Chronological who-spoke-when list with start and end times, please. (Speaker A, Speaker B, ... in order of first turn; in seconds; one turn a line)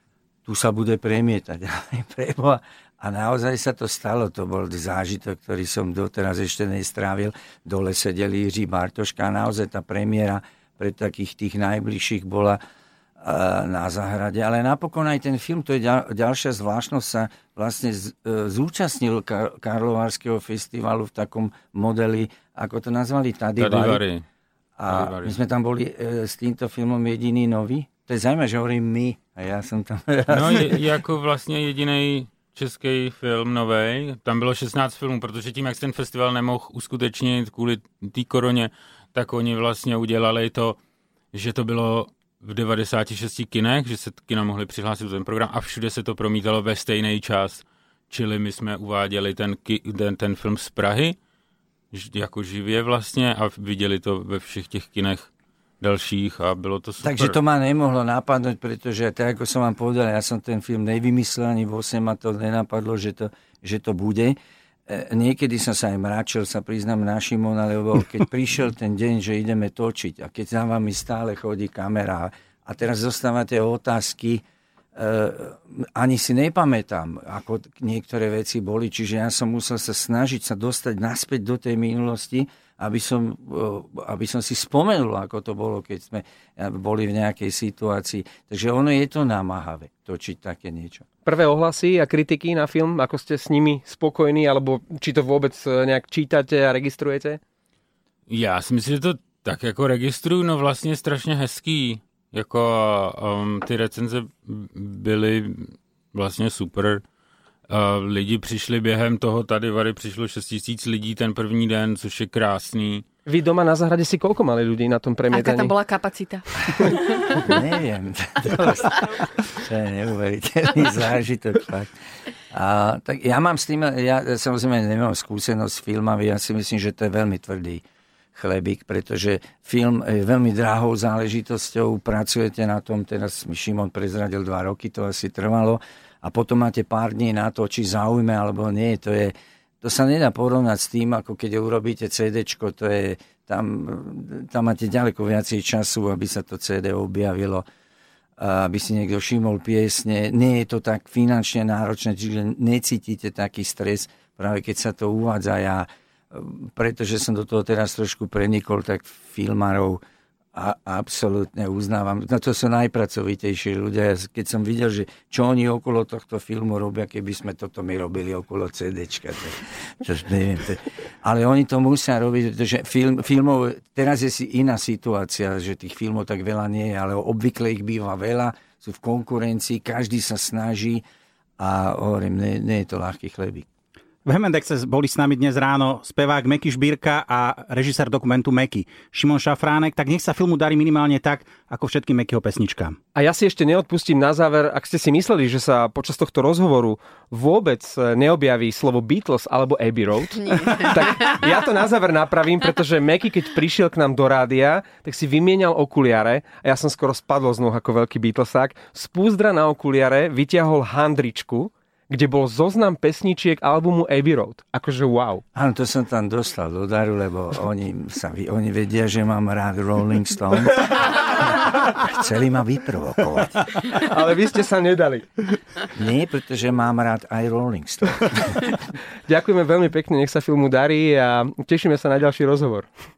Speaker A: 0.5-12.6
Speaker A: 13.2-24.0
Speaker B: 23.6-24.2
Speaker A: 24.8-30.8
Speaker B: 24.9-25.4
Speaker B: 30.3-40.8
Speaker B: 41.3-51.2
Speaker B: 51.9-55.3
Speaker B: 55.8-57.4
Speaker A: 57.0-64.4
Speaker A: 64.9-74.4
Speaker A: 75.0-91.1
Speaker C: 91.2-97.4
Speaker B: 98.3-107.0
Speaker B: 107.7-113.0
Speaker C: 113.3-115.7
Speaker D: 115.3-117.6
Speaker A: 117.4-121.9
Speaker A: 122.5-127.8
Speaker A: 128.3-147.7
Speaker A: 148.4-160.0
Speaker A: 160.6-181.0
Speaker A: 181.6-183.7
Speaker E: 184.2-193.0
Speaker C: 193.2-215.4
Speaker D: 200.4-201.7
Speaker A: 215.6-223.9
Speaker C: 223.9-225.6
Speaker A: 225.9-228.8
Speaker C: 229.3-232.9